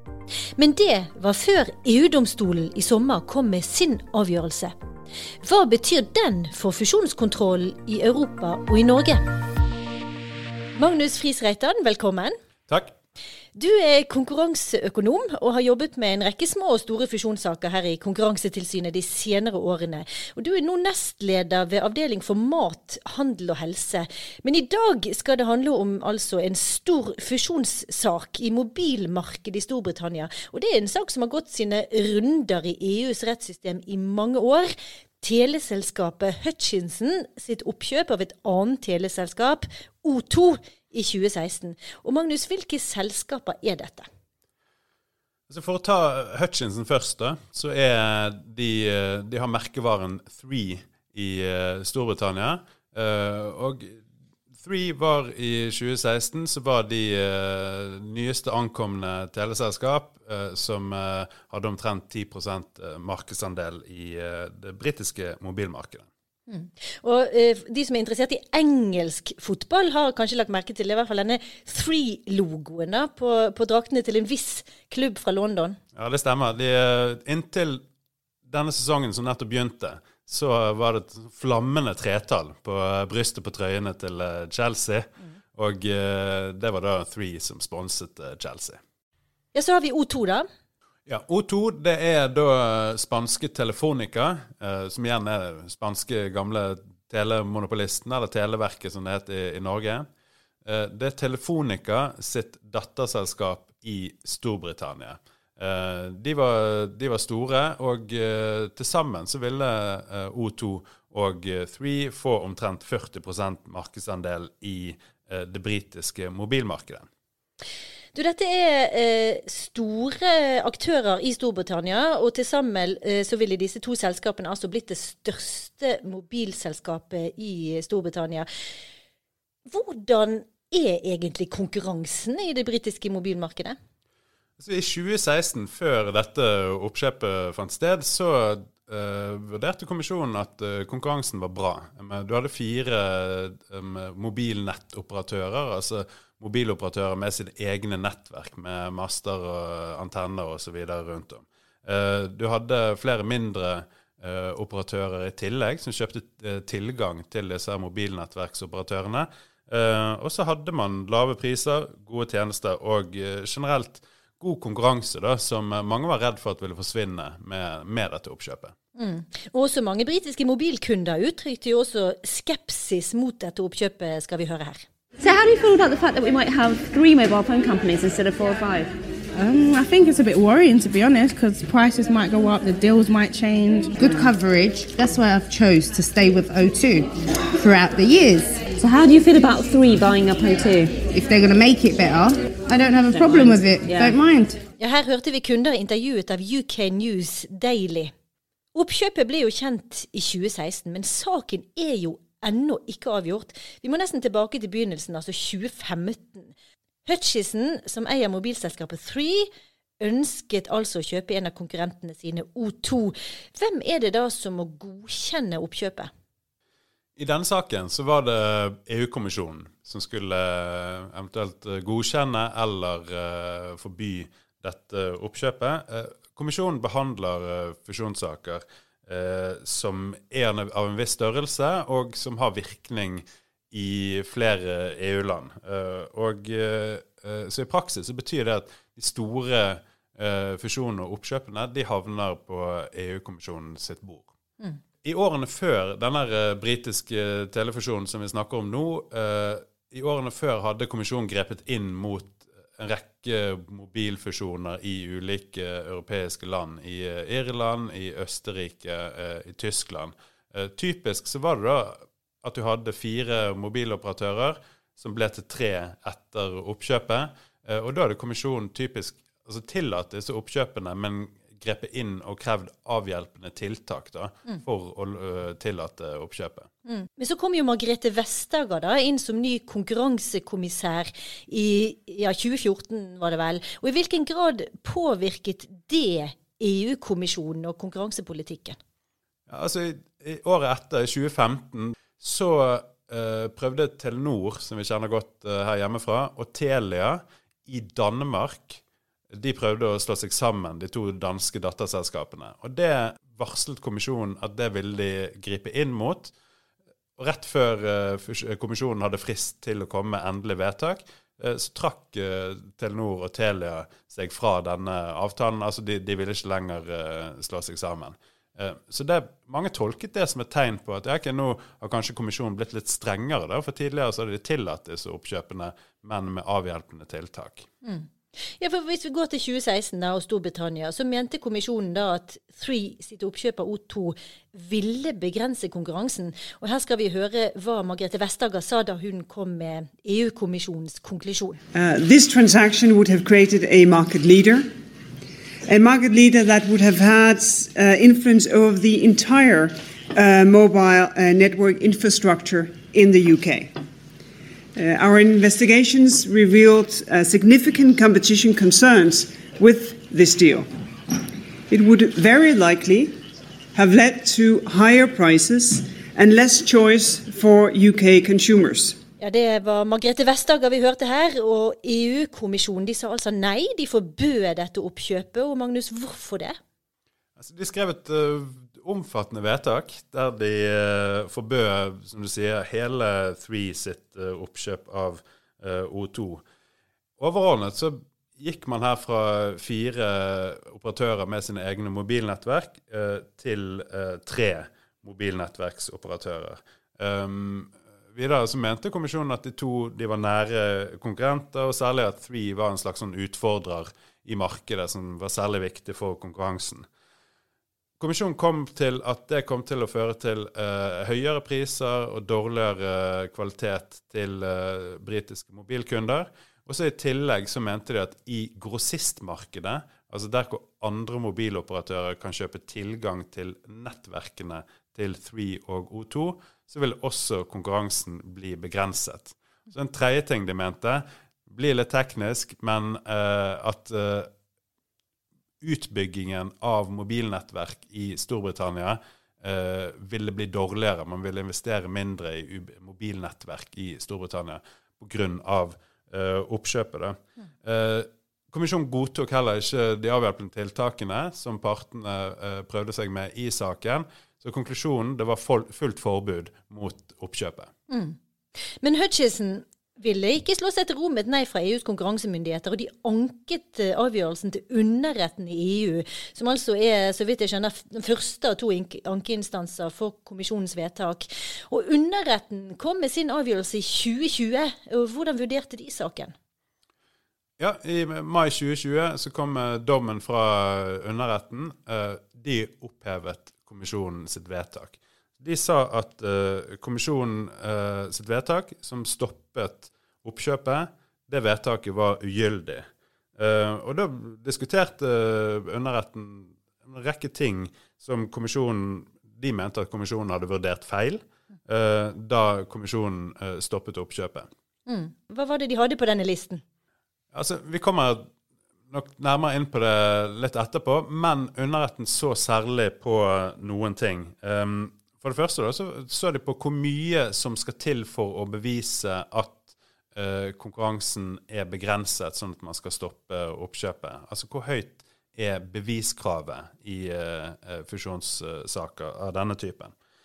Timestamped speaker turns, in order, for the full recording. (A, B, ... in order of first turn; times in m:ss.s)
0:00.6-0:04.8 A
0:05.4-0:09.3 A
0:10.8-0:12.4 A
0:12.7-0:12.9 B
0:13.6-0:44.1 A
0:45.5-0:54.0 B
0:54.5-1:06.1 B
1:06.5-1:15.8 A
1:15.9-1:17.8 B
1:18.4-1:28.8 B
1:29.5-1:30.5 A
1:31.1-1:40.1 B
1:40.6-1:57.1 B
1:58.1-2:08.5 A
2:09.7-2:13.8 A
2:14.6-2:48.8 B
2:49.0-2:54.8 A
2:55.2-2:58.9 C
2:59.4-3:04.0 D
3:04.0-3:08.6 E
3:08.8-3:11.0 C
3:11.1-3:14.6 E
3:13.2-3:14.1 C
3:14.8-3:18.1 A
3:18.7-3:26.5 A
3:27.1-3:29.5 A
3:30.0-3:36.1 A
3:37.2-4:04.3 B
4:05.0-4:36.7 B
4:36.9-4:48.8 A
4:49.5-5:06.3 B
5:07.2-5:27.7 B
5:27.8-5:41.6 A
5:41.7-5:44.7 F
5:45.7-5:53.7 F
5:54.8-6:00.7 F
6:01.7-6:03.2 F
6:03.8-6:09.0 F
6:09.2-6:16.6 A
6:17.4-6:26.4 B
6:27.2-6:46.9 B
6:48.0-7:14.3 B
7:15.6-7:37.7 B
7:37.9-7:38.2 A
7:38.8-7:56.3 A
7:57.6-8:24.5 B
8:24.9-8:26.6 A
8:27.3-8:28.3 B
8:28.9-8:49.9 B